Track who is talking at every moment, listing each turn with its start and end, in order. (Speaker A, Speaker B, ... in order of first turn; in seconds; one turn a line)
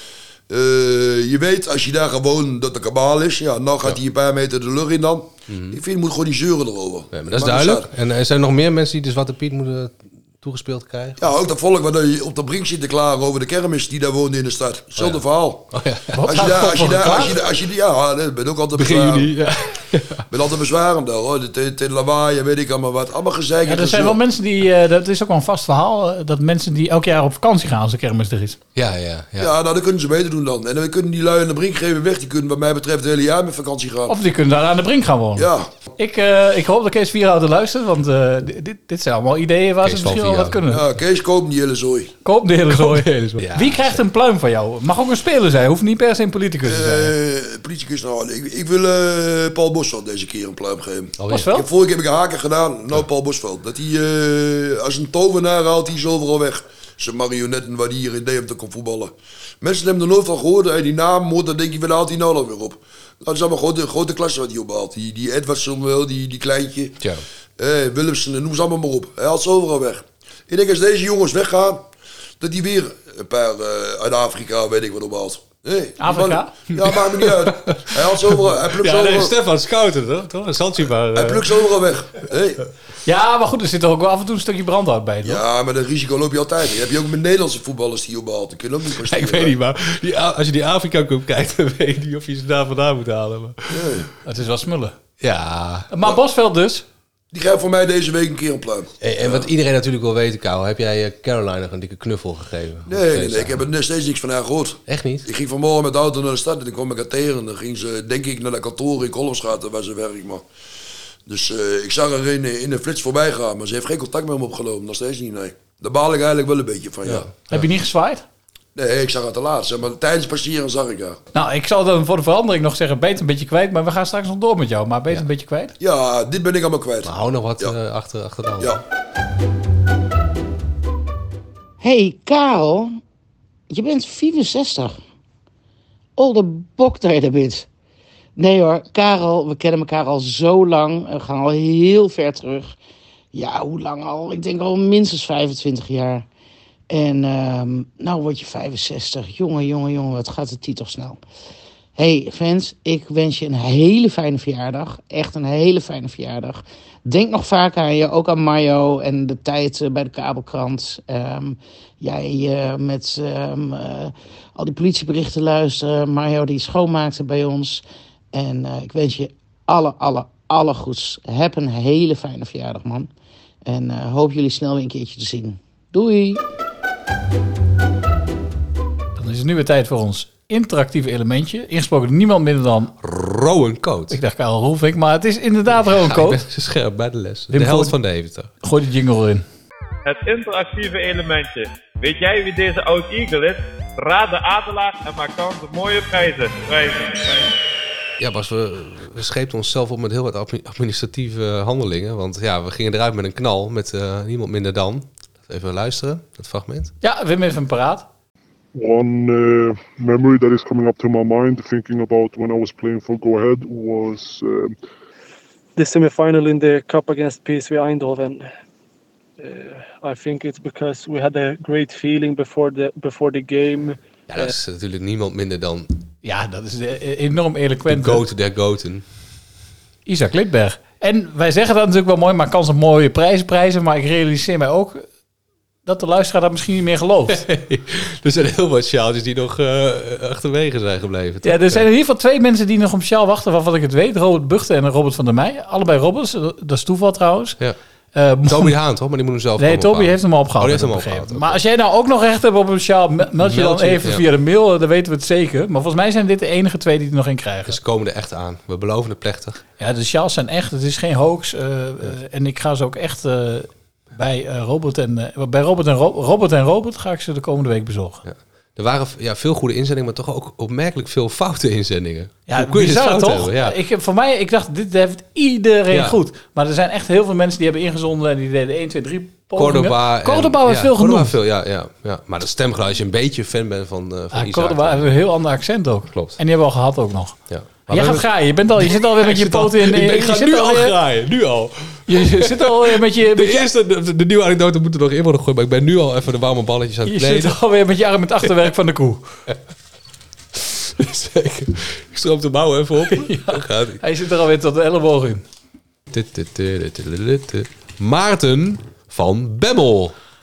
Speaker A: 0.5-7.9
Speaker B: 5.5-5.8
Speaker B: 7.1-11.2
Speaker A: 11.2-15.7
Speaker B: 14.9-15.2
Speaker B: 15.7-16.2
Speaker C: 16.1-17.4
Speaker A: 16.2-19.3
Speaker B: 18.7-20.2
Speaker A: 20.3-24.2
Speaker C: 23.6-28.6
Speaker B: 28.7-29.5
Speaker A: 29.4-34.1
Speaker C: 34.1-40.8
Speaker A: 35.4-35.7
Speaker B: 39.8-40.6
Speaker A: 40.7-42.1
Speaker C: 42.2-47.1
Speaker B: 42.7-44.0
Speaker A: 46.6-67.0
Speaker B: 51.2-51.5
Speaker C: 51.3-51.6
Speaker A: 67.6-71.9
Speaker A: 72.4-79.3
Speaker C: 76.0-76.5
Speaker B: 76.7-81.6
Speaker A: 81.1-82.6
Speaker C: 83.0-85.4
Speaker A: 85.2-89.5
Speaker B: 89.0-94.0
Speaker A: 93.7-94.1
Speaker C: 94.2-94.9
Speaker B: 95.2-95.9
Speaker C: 95.9-96.8
Speaker A: 97.3-99.5
Speaker B: 99.0-103.7
Speaker A: 102.9-110.4
Speaker B: 104.9-105.2
Speaker A: 111.2-117.3
Speaker B: 117.0-117.5
Speaker C: 117.5-118.2
Speaker A: 118.7-121.2
Speaker C: 121.3-125.7
Speaker A: 125.8-127.7
Speaker B: 127.0-128.8
Speaker D: 131.8-133.0
Speaker D: 133.7-135.0
Speaker D: 136.2-137.7
Speaker D: 138.4-142.7
Speaker D: 143.3-146.2
Speaker D: 146.9-151.2
Speaker D: 151.9-167.8
Speaker D: 168.3-173.1
Speaker D: 173.7-176.4
Speaker C: 179.2-182.9
Speaker B: 183.0-184.2
Speaker C: 184.1-186.4
Speaker B: 185.7-188.5
Speaker C: 187.5-187.9
Speaker C: 188.6-189.4
Speaker E: 190.0-197.5
Speaker B: 198.2-206.9
Speaker C: 207.0-208.1
Speaker F: 208.7-214.8
Speaker G: 215.8-218.5
Speaker G: 219.4-224.5
Speaker B: 224.3-225.9
Speaker C: 226.2-228.2
Speaker B: 227.9-229.0
Speaker C: 230.1-235.0
Speaker C: 235.8-237.4
Speaker B: 237.3-241.8
Speaker C: 241.4-247.6
Speaker C: 248.1-248.7
Speaker B: 248.4-251.6
Speaker C: 249.6-257.8
Speaker B: 253.4-254.2
Speaker B: 257.6-259.6
Speaker C: 259.8-268.2
Speaker B: 268.2-273.8
Speaker C: 272.5-281.3
Speaker B: 275.9-276.2
Speaker B: 279.6-285.1
Speaker C: 284.3-287.4
Speaker B: 286.1-286.4
Speaker B: 287.5-297.6
Speaker C: 287.9-290.9
Speaker C: 292.1-293.6
Speaker C: 297.1-299.2
Speaker B: 300.6-304.0
Speaker C: 303.1-305.4
Speaker B: 306.1-310.1